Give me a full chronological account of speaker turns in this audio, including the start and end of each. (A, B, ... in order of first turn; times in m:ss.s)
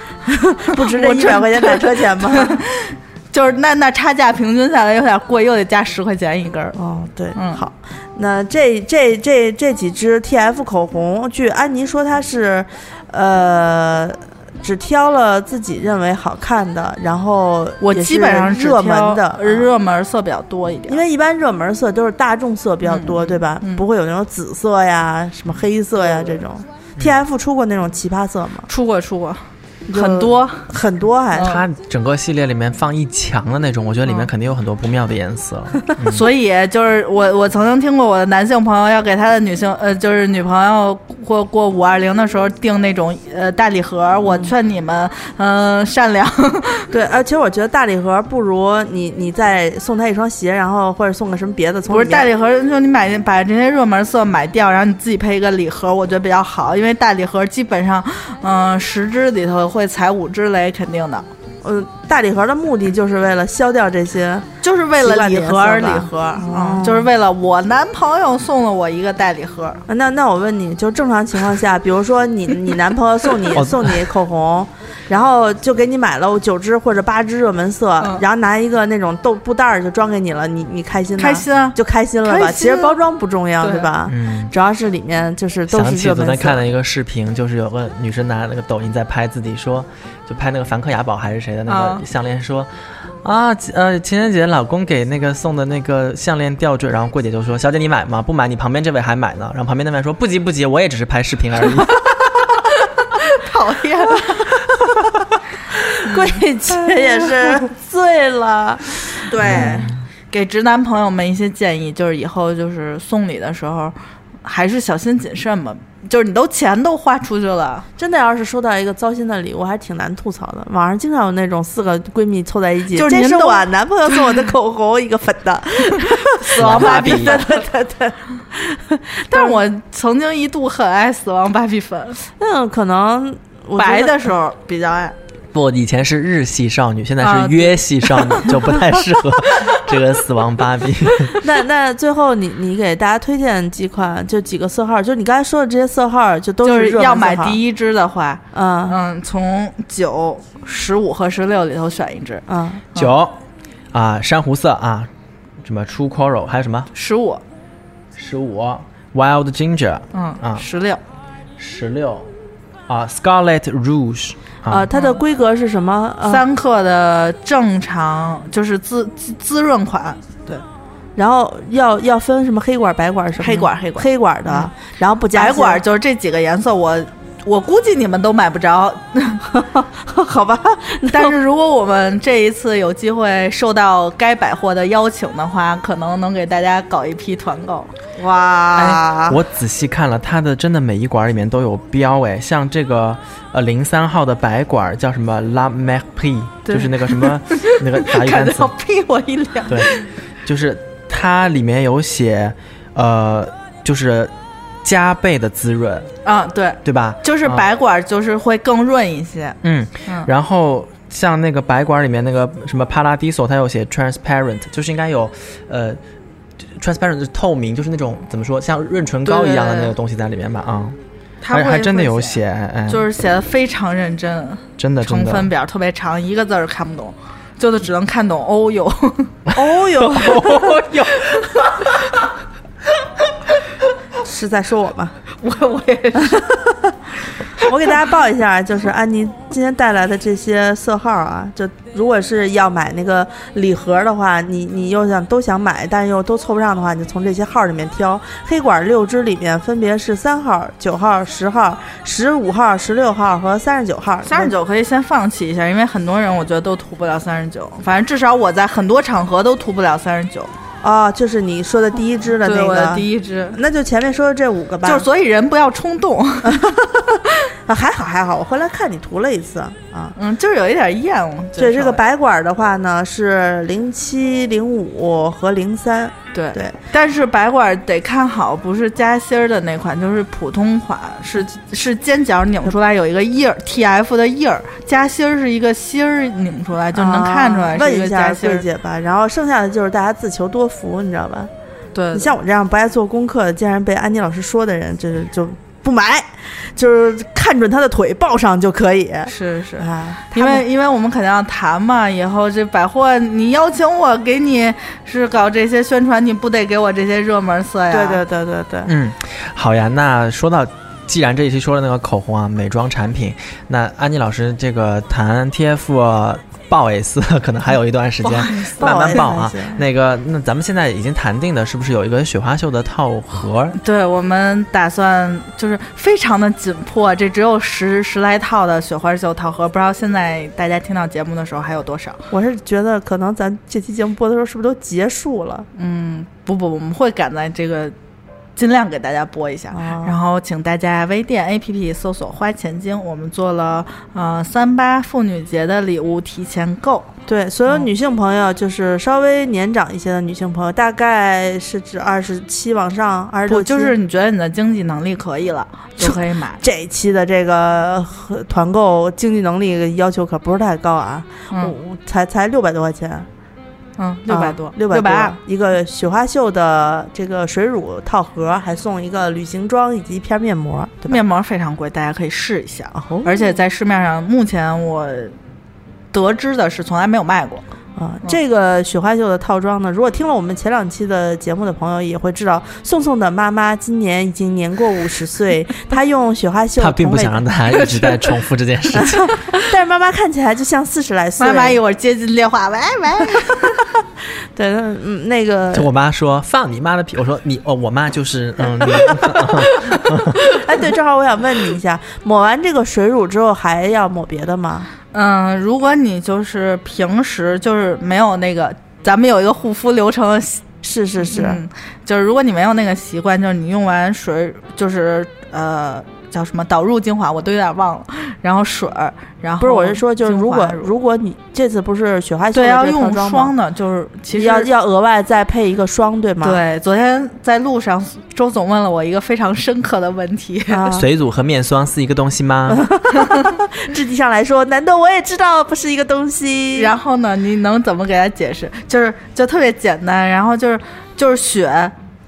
0:00.2-0:02.6 A
0:00.6-0:06.7 B
0:06.7-0:19.7 A
0:07.3-0:07.6 B
0:17.8-0:21.0 B
0:20.9-0:28.7 A
0:22.8-0:23.8 B
0:28.7-0:30.7 B
0:29.9-0:31.6 A
0:31.3-0:31.6 B
0:31.4-0:36.2 C
0:36.1-0:46.9 B
0:44.3-0:44.5 A
0:46.9-0:52.3 A
0:51.9-1:01.3 B
1:01.6-1:04.5 A
1:04.6-1:09.8 B
1:05.0-1:07.1 A
1:09.9-1:26.6 A
1:13.5-1:14.0 C
1:21.2-1:23.0 B
1:23.6-1:23.9 B
1:24.1-1:24.5 C
1:25.7-1:32.7 C
1:31.7-1:32.0 B
1:33.2-1:42.0 C
1:42.6-1:44.6 B
1:45.8-1:49.8 A
1:46.0-1:47.5 B
1:49.2-1:57.8 B
1:49.4-1:50.0 C
1:58.0-2:09.6 A
2:02.9-2:04.3 B
2:06.0-2:07.6 B
2:06.5-2:07.4 C
2:09.3-2:12.2 B
2:12.4-2:14.3 A
2:13.8-2:15.2 B
2:15.5-2:21.4 C
2:17.2-2:18.6 B
2:19.5-2:19.8 B
2:21.4-2:27.6 A
2:26.6-2:32.4 B
2:28.5-2:29.0 A
2:32.5-2:32.8 A
2:32.9-2:33.4 C
2:33.9-2:35.1 C
2:35.6-2:36.9 C
2:36.9-2:37.4 B
2:38.2-2:40.6 C
2:40.1-2:41.0 B
2:41.6-2:42.3 C
2:42.9-2:44.9 C
2:44.7-2:46.4 A
2:44.9-2:45.2 B
2:46.2-2:50.6 B
2:51.2-2:55.8 A
2:53.4-2:54.7 B
2:55.3-2:59.4 B
2:59.5-3:01.4 A
3:01.1-3:07.9 B
3:08.2-3:09.4 A
3:08.7-3:18.7 C
3:16.7-3:20.1 B
3:19.7-3:19.9 C
3:20.4-3:24.3 C
3:24.8-3:26.1 C
3:26.2-3:30.3 B
3:26.8-3:27.6 C
3:29.6-3:36.0 C
3:36.7-3:41.0 C
3:39.2-3:39.9 B
3:41.4-3:49.4 B
3:41.5-3:43.0 C
3:44.8-3:45.5 C
3:49.5-3:50.8 A
3:50.1-3:51.2 C
3:50.3-3:51.9 B
3:54.2-3:55.2 A
3:55.4-3:56.6 B
3:56.3-3:56.7 A
3:57.6-4:14.5 A
4:14.2-4:20.5 B
4:20.8-4:25.1 A
4:22.4-4:23.6 B
4:24.8-4:27.3 B
4:26.4-4:27.0 A
4:27.6-4:30.1 A
4:30.1-4:32.0 B
4:31.6-4:36.8 A
4:36.3-4:48.6 B
4:46.9-4:51.5 A
4:51.9-4:52.3 B
4:52.1-5:00.6 A
4:59.3-5:08.2 B
5:07.9-5:08.9 A
5:08.8-5:23.8 C
5:18.2-5:19.2 B
5:18.8-5:19.8 A
5:23.8-5:32.2 B
5:32.3-5:35.7 A
5:35.8-5:37.9 B
5:38.6-5:47.1 B
5:39.7-5:40.2 A
5:47.3-5:54.0 A
5:53.5-5:56.6 B
5:56.0-6:03.3 A
6:04.0-6:05.4 B
6:04.3-6:11.2 A
6:11.1-6:15.3 B
6:12.9-6:13.4 A
6:16.1-6:17.6 B
6:18.0-6:27.5 A
6:26.8-6:29.3 C
6:27.8-6:28.3 B
6:28.9-6:31.8 A
6:31.4-6:33.8 B
6:34.5-6:35.9 A
6:35.7-6:40.4 C
6:38.8-6:39.4 A
6:39.7-6:40.6 B
6:40.4-6:44.9 A
6:45.1-6:50.7 B
6:50.8-6:51.6 A
6:51.2-7:00.9 B
6:59.6-7:03.5 A
7:02.5-7:04.7 B
7:04.3-7:06.6 A
7:06.4-7:10.9 B
7:10.7-7:11.1 A
7:10.9-7:12.9 C
7:12.7-7:16.9 A
7:16.7-7:21.9 B